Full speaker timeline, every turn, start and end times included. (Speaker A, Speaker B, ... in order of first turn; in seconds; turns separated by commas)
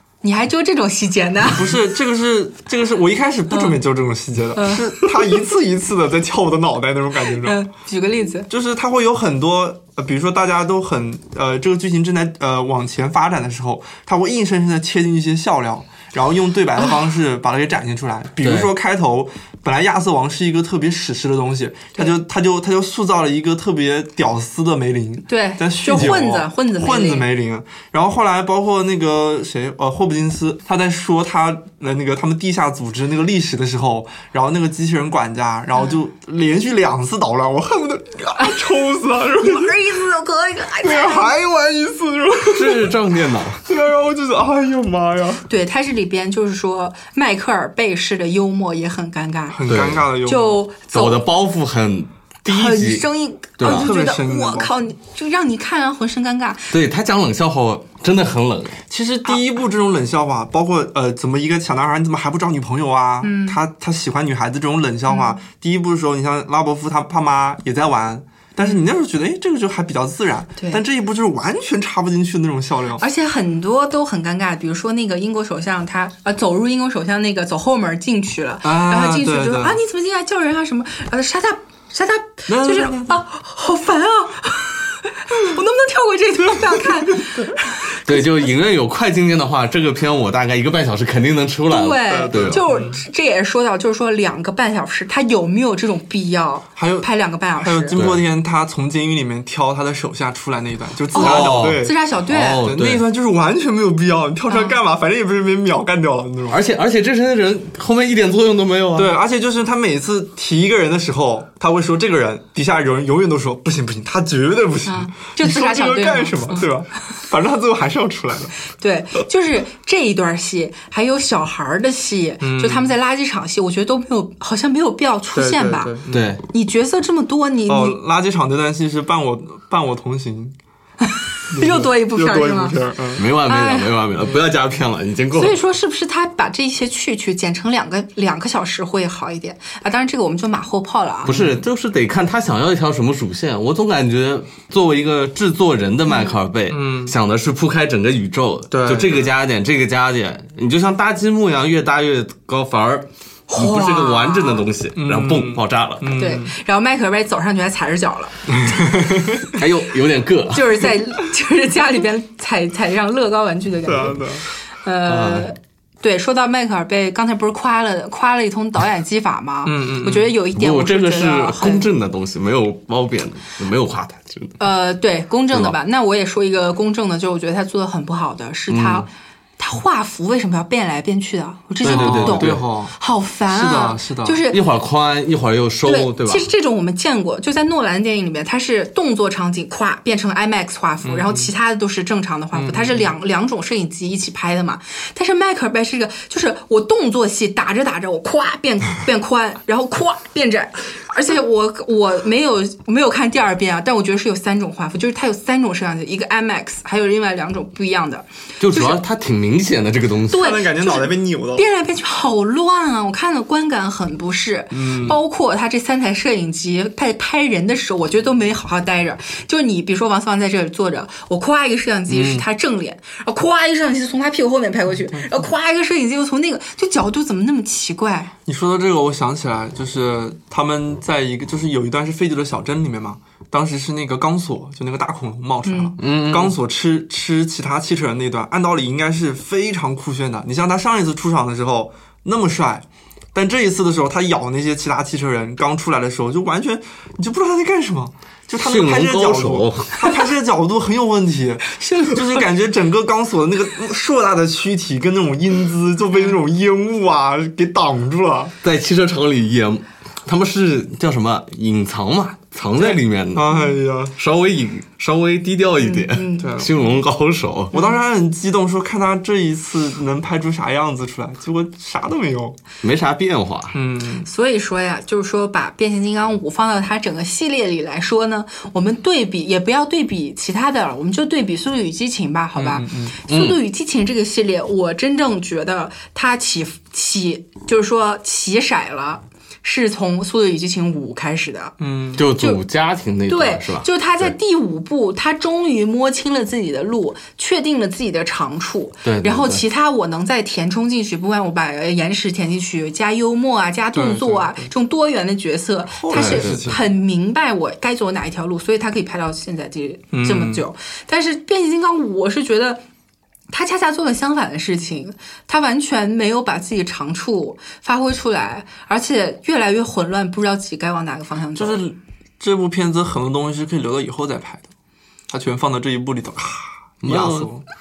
Speaker A: 0.2-1.6, Speaker B: 1.4-7.6, Speaker A: 3.5-3.8, Speaker A: 4.5-5.4, Speaker A: 7.2-8.5, Speaker B: 8.5-39.9, Speaker C: 18.4-18.7, Speaker A: 25.3-27.2, Speaker A: 39.4-41.3, Speaker B: 40.8-43.0, Speaker C: 42.5-43.6, Speaker B: 43.6-45.5, Speaker A: 45.5-51.2, Speaker B: 49.5-50.6, Speaker C: 49.7-50.0, Speaker C: 50.9-53.0, Speaker A: 52.5-56.7, Speaker C: 53.6-53.9, Speaker B: 53.6-54.7, Speaker C: 56.7-58.8, Speaker B: 58.9-73.0, Speaker A: 63.2-63.6, Speaker A: 65.1-65.4, Speaker A: 73.0-88.2, Speaker B: 78.6-79.8, Speaker B: 82.5-83.2, Speaker B: 86.5-87.3, Speaker C: 88.0-92.6, Speaker A: 91.7-98.0, Speaker B: 92.1-93.0, Speaker B: 96.8-97.1, Speaker B: 97.6-106.6, Speaker C: 97.9-98.2, Speaker A: 101.1-102.7, Speaker C: 101.2-103.0, Speaker A: 104.5-104.8, Speaker C: 106.5-109.1, Speaker B: 108.9-118.5, Speaker A: 114.8-116.6, Speaker A: 118.7-125.9, Speaker B: 122.4-122.9, Speaker B: 125.3-126.3, Speaker C: 126.1-126.4, Speaker A: 126.5-128.0, Speaker B: 127.7-130.5, Speaker A: 131.0-132.8, Speaker B: 131.5-133.2, Speaker C: 133.2-135.6, Speaker A: 133.3-133.9, Speaker A: 135.3-141.3, Speaker B: 141.2-141.6, Speaker C: 141.2-156.1, Speaker A: 146.1-146.3, Speaker B: 146.7-147.1, Speaker B: 148.7-149.3, Speaker A: 153.5-154.6, Speaker B: 154.9-156.5, Speaker A: 156.1-158.9, Speaker B: 158.5-159.5, Speaker C: 159.6-160.8, Speaker A: 160.5-171.9, Speaker B: 163.8-164.4, Speaker C: 165.1-165.5, Speaker B: 169.6-170.3, Speaker C: 170.5-174.6, Speaker A: 174.6-179.1, Speaker C: 178.7-179.1, Speaker A: 179.6-184.6, Speaker B: 181.8-182.9, Speaker C: 181.8-182.6, Speaker B: 183.5-184.4, Speaker C: 184.5-186.5, Speaker A: 185.8-209.0, Speaker B: 191.0-191.5, Speaker B: 192.5-193.1, Speaker C: 208.6-210.5, Speaker B: 210.3-211.6, Speaker A: 210.3-228.3, Speaker B: 214.7-215.2, Speaker B: 222.1-222.4, Speaker B: 225.1-225.4, Speaker B: 228.5-258.5, Speaker A: 235.7-235.9, Speaker C: 236.0-236.6, Speaker C: 248.6-250.0, Speaker A: 251.8-252.2, Speaker A: 256.1-256.4, Speaker C: 258.6-263.6, Speaker B: 262.8-264.1, Speaker C: 264.2-267.7, Speaker A: 265.8-266.6, Speaker B: 266.4-266.8, Speaker A: 267.7-268.0, Speaker B: 267.7-272.6, Speaker C: 272.8-273.8, Speaker B: 273.7-274.3, Speaker A: 274.2-291.7, Speaker B: 282.6-283.2, Speaker C: 283.3-283.6, Speaker B: 291.8-292.2, Speaker C: 292.1-294.3, Speaker A: 292.3-292.6, Speaker A: 293.3-312.8, Speaker C: 299.0-299.6, Speaker B: 303.9-304.7, Speaker B: 306.0-306.8, Speaker C: 306.1-306.7, Speaker B: 310.1-310.6, Speaker A: 313.5-321.8, Speaker B: 321.6-324.7, Speaker B: 325.3-327.6, Speaker C: 327.0-327.5